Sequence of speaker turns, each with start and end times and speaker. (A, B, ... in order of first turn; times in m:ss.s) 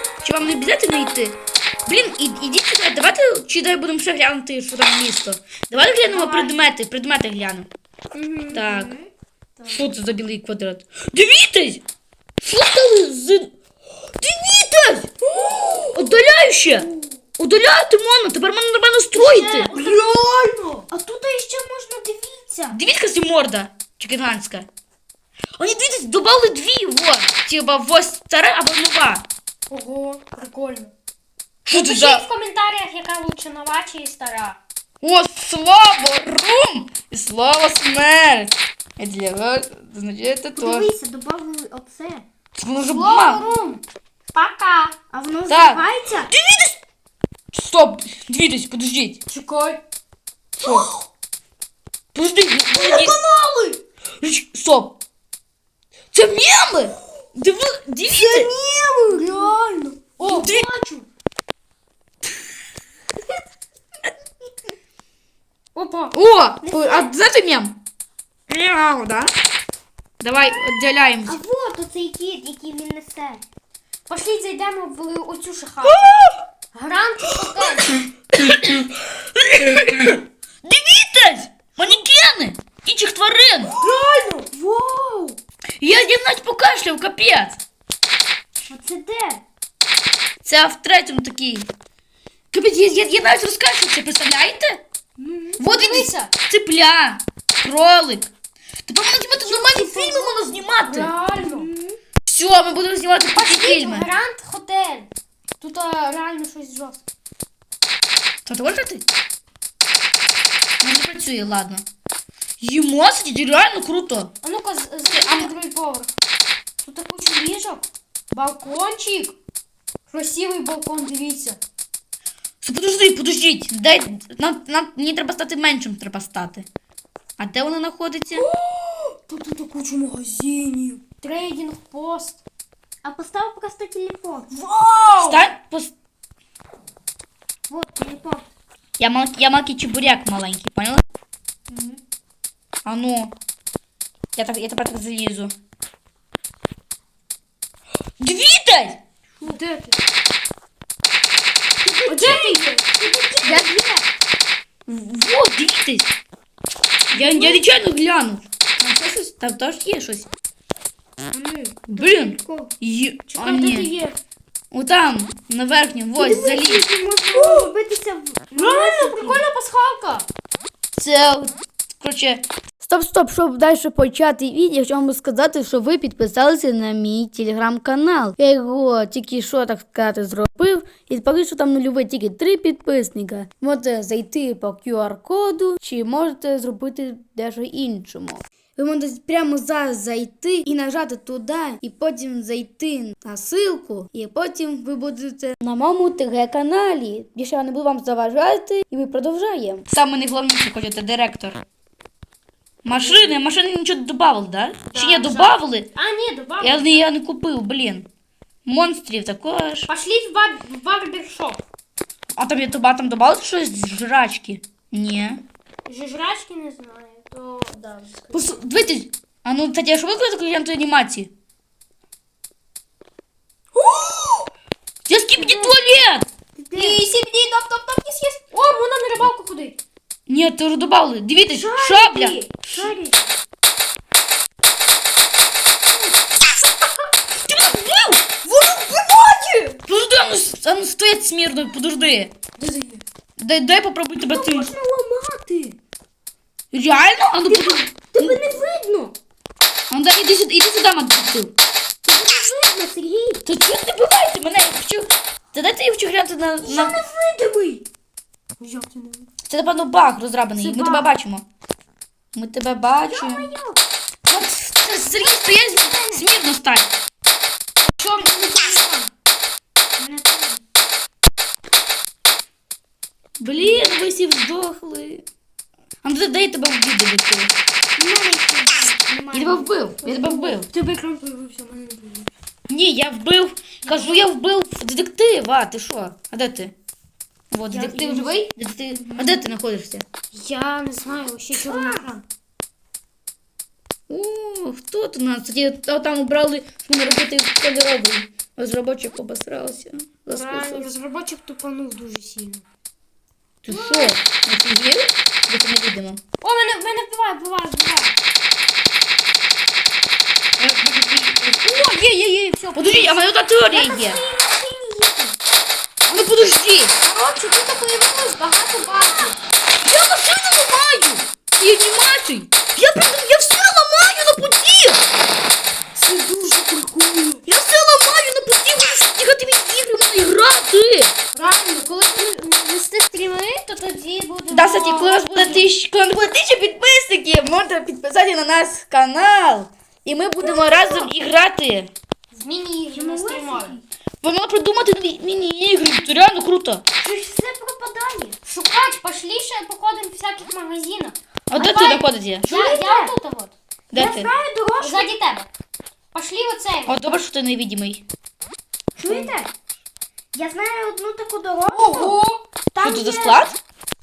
0:00.2-0:07.7 A
0:06.2-0:06.6 B
0:08.1-0:08.7 C
0:08.5-0:08.9 A
0:08.6-0:09.1 B
0:09.7-0:11.8 A
0:12.4-0:13.5 A
0:14.2-0:15.1 A
0:15.4-0:15.9 C
0:15.8-0:16.9 A
0:17.4-0:19.7 A
0:19.1-0:20.9 C
0:20.9-0:22.8 B
0:22.7-0:24.7 A
0:25.6-0:29.2 A
0:29.7-0:30.9 C
0:31.7-0:32.2 A
0:31.7-0:34.6 C
0:35.0-0:40.9 A
0:40.6-0:42.3 B
0:42.6-0:43.4 A
0:42.8-0:45.0 C
0:45.1-0:46.3 B
0:45.5-0:46.8 A
0:47.5-0:49.2 A
0:49.3-0:49.8 C
0:50.6-0:50.9 A
0:52.1-0:53.2 A
0:53.0-0:53.7 C
0:54.2-0:55.0 A
0:56.1-0:58.5 A
0:58.3-0:59.4 B
0:59.1-1:01.1 C
1:00.2-1:00.7 A
1:05.8-1:06.2 C
1:06.1-1:07.8 A
1:06.6-1:07.1 B
1:08.5-1:09.3 A
1:10.2-1:11.4 A
1:11.2-1:13.4 B
1:14.1-1:16.1 C
1:15.8-1:16.4 A
1:16.7-1:18.0 C
1:17.5-1:23.8 A
1:23.8-1:24.5 C
1:24.8-1:25.3 B
1:25.8-1:27.6 A
1:28.7-1:29.4 B
1:30.4-1:31.7 A
1:32.5-1:34.8 A
1:35.2-1:35.6 B
1:35.6-1:38.3 A
1:35.6-1:36.3 C
1:38.9-1:41.1 A
1:39.4-1:40.5 B
1:40.9-1:41.7 C
1:41.4-1:42.0 B
1:42.3-1:44.1 A
1:43.3-1:45.1 C
1:45.6-1:47.0 C
1:48.5-1:49.0 A
1:50.8-1:51.8 A
1:52.6-1:54.3 A
1:54.4-1:56.1 C
1:55.1-1:55.5 A
1:56.8-1:59.4 C
2:00.1-2:01.6 C
2:02.6-2:06.7 A
2:07.4-2:08.5 A
2:08.3-2:12.4 C
2:13.0-2:14.5 B
2:14.5-2:15.4 C
2:15.2-2:15.9 A
2:17.7-2:18.5 B
2:19.0-2:21.0 A
2:21.7-2:22.0 B
2:22.8-2:23.3 A
2:24.4-2:25.5 A
2:28.2-2:29.0 A
2:29.4-2:30.0 C
2:31.8-2:34.1 B
2:32.1-2:33.7 C
2:34.9-2:36.1 A
2:37.1-2:40.3 A
2:37.1-2:37.6 C
2:41.3-2:42.7 B
2:41.9-2:43.9 A
2:43.3-2:44.2 C
2:44.7-2:46.9 A
2:46.1-2:49.4 B
2:47.3-2:47.7 C
2:48.6-2:50.3 C
2:51.0-3:21.6 A
3:22.8-3:25.9 A
3:22.9-3:23.4 C
3:24.9-3:27.1 C
3:26.6-3:28.1 A
3:28.6-3:29.9 A
3:29.9-3:31.6 C
3:32.4-3:35.4 A
3:35.9-3:38.6 C
3:38.3-3:41.3 A
3:43.7-3:44.5 C
3:45.1-3:46.3 A
3:45.4-3:45.8 C
3:46.6-3:47.0 B
3:46.7-3:49.8 C
3:50.3-3:52.9 A
3:51.5-3:53.3 B
3:52.7-3:53.0 C
3:57.4-3:58.3 A
3:58.4-3:59.8 C
3:59.9-4:02.3 A
4:02.6-4:03.0 C
4:03.4-4:04.7 A
4:04.2-4:05.7 B
4:06.7-4:08.4 A
4:07.4-4:09.1 B
4:09.9-4:11.5 A
4:12.0-4:13.4 B
4:13.5-4:17.0 A
4:16.6-4:17.8 B
4:18.6-4:19.3 C
4:19.5-4:21.4 A
4:20.6-4:21.1 C
4:22.3-4:23.5 A
4:23.1-4:23.8 B
4:24.3-4:26.9 A
4:25.1-4:26.3 B
4:27.8-4:29.1 C
4:30.0-4:30.6 B
4:33.4-4:35.2 A
4:36.0-4:37.5 A
4:38.0-4:39.7 B
4:39.3-4:40.7 A
4:40.0-4:42.3 C
4:42.7-4:46.7 A
4:43.8-4:44.3 C
4:47.5-4:50.0 A
4:47.7-4:48.5 C
4:50.3-4:52.2 C
4:54.1-5:00.9 A
5:00.3-5:02.6 C
5:03.6-5:06.2 A
5:03.7-5:04.2 C
5:06.4-5:08.2 C
5:10.6-5:11.4 A
5:11.4-5:15.4 C
5:12.8-5:14.2 A
5:16.1-5:16.9 A
5:17.0-5:19.4 C
5:19.8-5:25.0 A
5:25.9-5:27.4 C
5:27.5-5:31.2 A
5:31.3-5:35.7 C
5:34.5-5:41.9 A
5:40.7-5:41.1 B
5:42.3-5:43.8 C
5:42.9-5:43.8 B
5:44.2-5:46.8 A
5:47.0-5:48.4 B
5:48.4-5:51.2 C
5:51.5-5:52.5 A
5:51.5-5:53.1 B
5:52.4-5:53.5 C
5:53.9-5:54.3 A
5:53.9-5:55.1 B
5:54.8-5:55.5 C
5:56.1-5:57.0 C
5:56.9-5:58.0 A
5:59.0-5:59.5 B
5:59.0-5:59.3 C
6:00.3-6:02.2 B
6:01.7-6:02.4 C
6:02.7-6:03.4 B
6:02.8-6:03.6 A